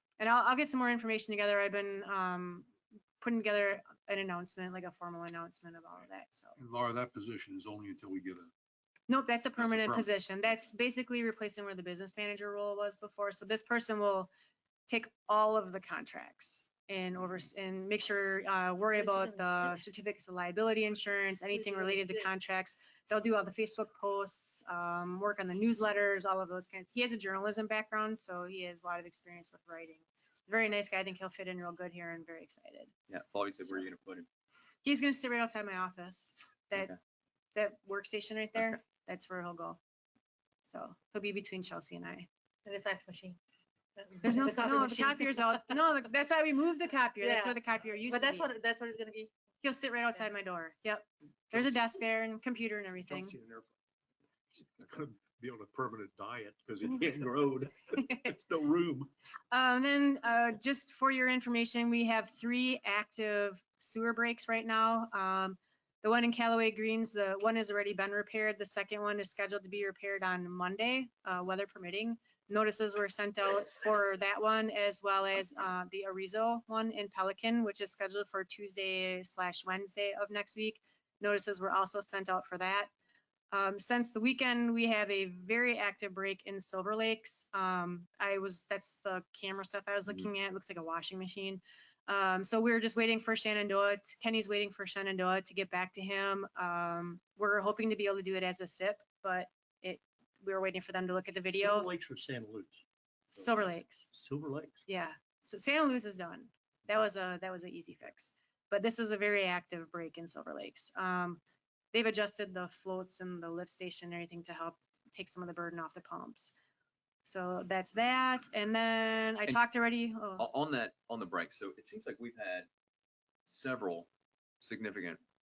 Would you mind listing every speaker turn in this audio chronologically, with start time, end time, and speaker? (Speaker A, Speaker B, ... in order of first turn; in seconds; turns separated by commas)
Speaker A: 0.2-2.7, Speaker A: 3.2-6.6, Speaker B: 6.6-8.5, Speaker A: 9.1-14.3, Speaker B: 9.6-10.1, Speaker A: 14.9-32.9, Speaker C: 18.9-19.7, Speaker C: 21.5-22.2, Speaker D: 33.1-34.3, Speaker A: 34.8-36.9, Speaker A: 37.5-39.8, Speaker A: 40.6-42.3, Speaker C: 42.6-43.4, Speaker C: 44.0-45.7, Speaker A: 44.2-48.5, Speaker C: 47.2-49.3, Speaker A: 49.6-53.3, Speaker E: 53.3-53.6, Speaker B: 54.8-56.2, Speaker E: 54.9-59.1, Speaker B: 56.8-57.4, Speaker A: 59.5-82.9, Speaker A: 83.5-101.9, Speaker E: 101.5-102.8, Speaker A: 103.3-104.1, Speaker E: 103.3-104.8, Speaker A: 104.9-111.4, Speaker A: 111.9-116.5, Speaker A: 117.2-120.5, Speaker D: 120.4-122.7, Speaker D: 123.5-124.1, Speaker D: 124.6-125.2